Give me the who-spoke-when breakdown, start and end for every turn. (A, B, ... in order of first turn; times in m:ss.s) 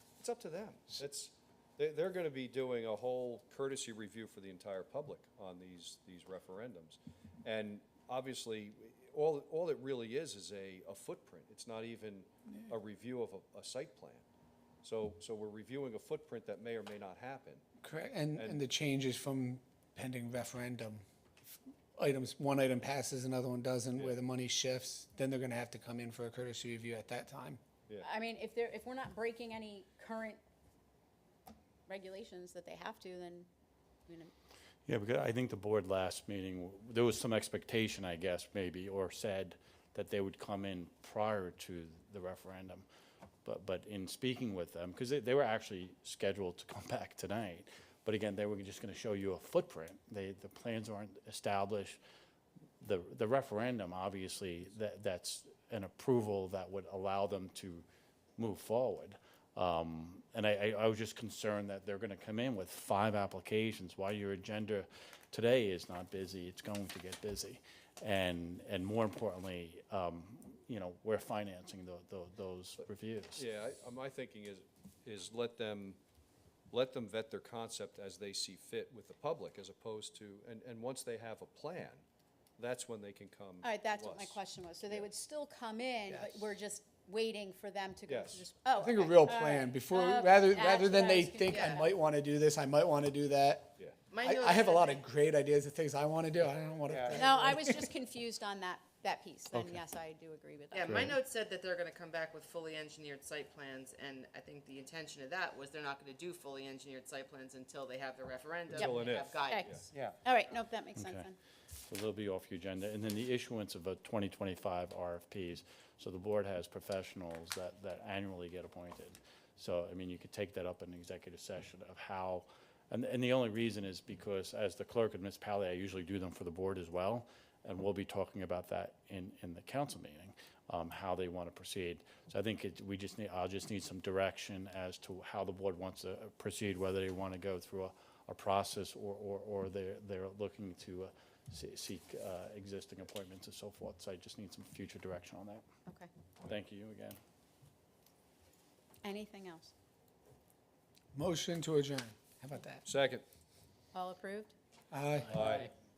0:00.2-0:14.2 A
0:14.8-0:17.6 A
0:17.8-0:21.0 B
0:18.3-0:18.6 A
0:22.0-0:27.6 B
0:28.0-0:30.4 C
0:31.9-0:33.5 C
0:34.9-0:42.8 D
0:43.4-0:52.0 D
0:52.8-0:57.8 D
0:58.4-1:13.4 D
1:13.4-1:16.0 A
1:16.7-1:22.0 A
1:22.6-1:25.1 A
1:23.6-1:31.9 C
1:26.1-1:26.5 A
1:28.1-1:28.5 A
1:28.8-1:37.9 B
1:31.5-1:31.8 E
1:34.1-1:35.0 E
1:36.9-1:37.1 A
1:37.1-1:41.0 C
1:39.5-1:39.8 D
1:40.7-1:50.0 E
1:40.8-1:41.2 D
1:48.7-1:49.8 A
1:48.8-1:51.3 C
1:51.0-1:51.3 D
1:51.9-2:25.6 D
2:26.4-2:27.2 D
2:29.0-2:29.7 C
2:31.1-2:32.8 B
2:32.8-2:33.2 A
2:33.9-2:34.5 C
2:34.9-2:35.5 B
2:35.3-2:35.7 A